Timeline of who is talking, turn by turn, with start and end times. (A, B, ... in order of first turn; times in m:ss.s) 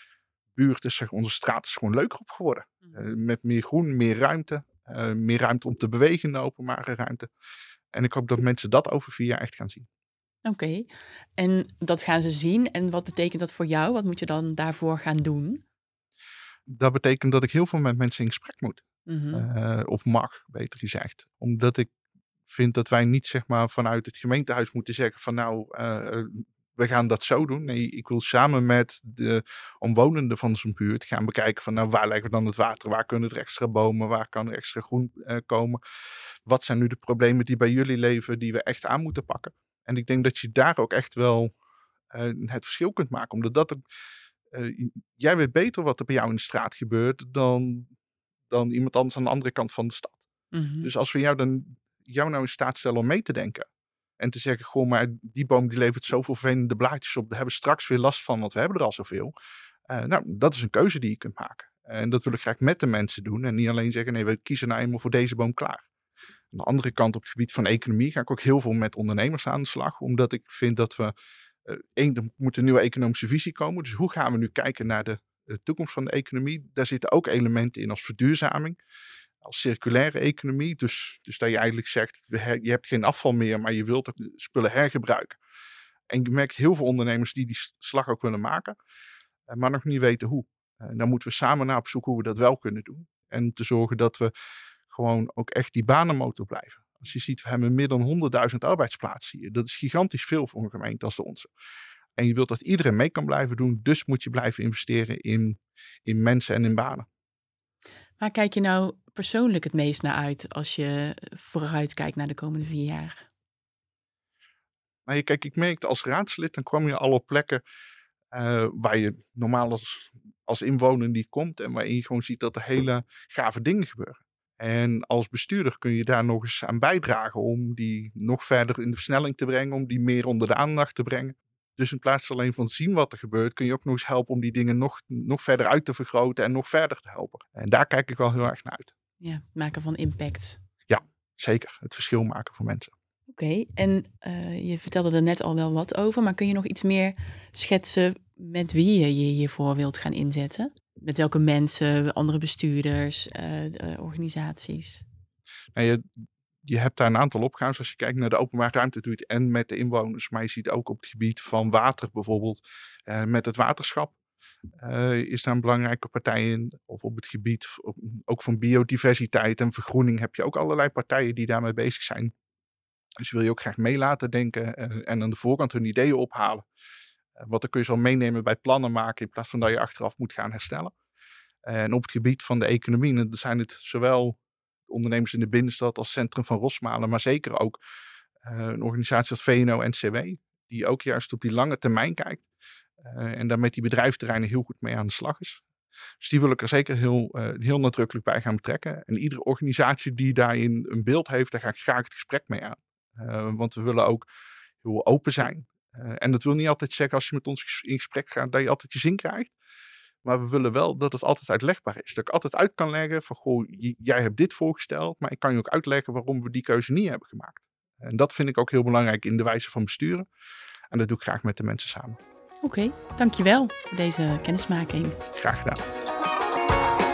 0:00.5-0:07.3 A
0:07.9-0:09.9 A
0:10.4-0:15.6 B
0:16.7-0:18.8 A
0:19.1-0:19.4 B
0:19.3-0:21.9 A
0:22.5-0:35.8 A
0:36.4-0:41.5 A
0:42.1-0:43.8 A
0:44.5-0:47.9 A
0:48.5-0:50.2 A
0:50.5-0:50.9 B
0:50.8-0:53.7 A
0:54.2-0:59.3 A
0:59.9-1:05.9 A
1:06.5-1:11.1 A
1:11.6-1:18.8 A
1:19.4-1:25.4 A
1:26.1-1:28.8 A
1:29.5-1:34.3 A
1:34.9-1:41.5 A
1:42.2-1:47.1 A
1:48.2-1:53.3 B
1:55.0-1:57.6 A
1:58.3-2:18.9 A
2:19.2-2:20.6 B
2:20.9-2:22.9 A
2:23.3-2:35.0 B
2:35.7-2:36.0 A
2:36.6-2:44.1 A
2:44.8-2:52.3 A
2:53.2-2:56.6 A
2:57.4-3:00.9 A
3:01.6-3:07.8 A
3:08.4-3:12.5 A
3:13.0-3:15.6 A
3:16.2-3:24.2 A
3:24.8-3:29.6 A
3:30.2-3:40.3 A
3:40.9-3:42.2 A
3:42.6-3:45.2 B
3:45.3-3:45.8 A